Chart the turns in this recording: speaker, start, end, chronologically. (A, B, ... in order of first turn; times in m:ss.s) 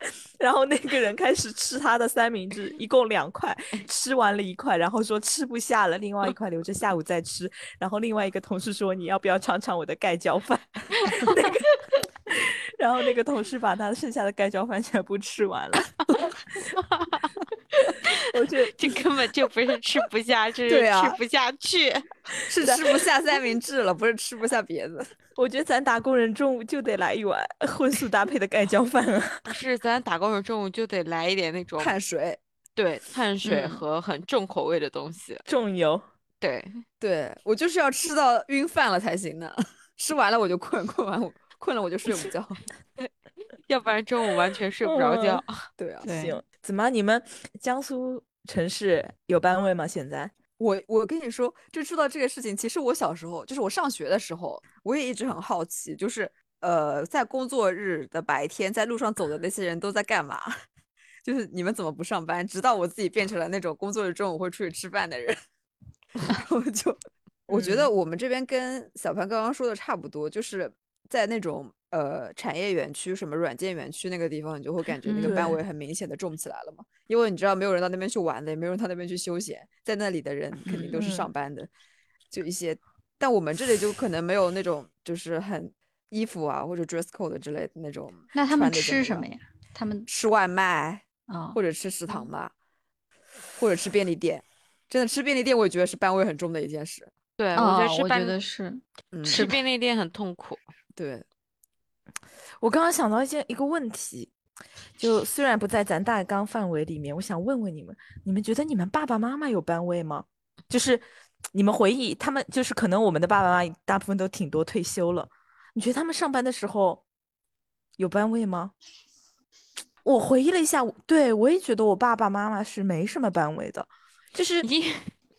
0:00.4-0:16.0 A
0:16.7-0:17.4 B
0:18.3-0:19.0 A
0:18.7-0:22.1 B
0:20.7-0:21.2 C
0:22.4-0:25.1 C
0:25.4-0:29.5 A
0:29.5-0:32.0 B
0:31.8-0:32.4 C
0:32.8-0:35.4 B
0:33.4-0:33.8 D
0:35.5-0:36.0 A
0:36.4-0:36.8 B
0:37.0-0:42.6 C
0:43.7-0:45.7 B
0:44.8-0:45.4 A
0:45.8-0:46.1 C
0:46.0-0:46.4 D
0:46.1-0:50.3 A
0:50.6-1:00.5 C
1:01.2-1:05.4 C
1:06.2-1:07.0 C
1:07.5-1:21.7 C
1:07.5-1:07.9 A
1:15.1-1:15.5 D
1:15.2-1:15.6 A
1:20.7-1:21.0 D
1:20.9-1:21.3 A
1:22.3-1:29.3 C
1:28.3-1:30.1 D
1:30.1-1:32.5 C
1:31.3-1:31.6 D
1:33.6-1:37.1 C
1:37.4-1:38.4 B
1:37.6-1:39.6 D
1:39.1-1:39.4 C
1:39.3-1:40.6 B
1:41.0-1:41.2 C
1:42.6-1:44.3 A
1:45.0-1:57.0 A
1:58.0-1:58.7 A
2:00.0-2:04.7 A
2:04.6-2:05.1 B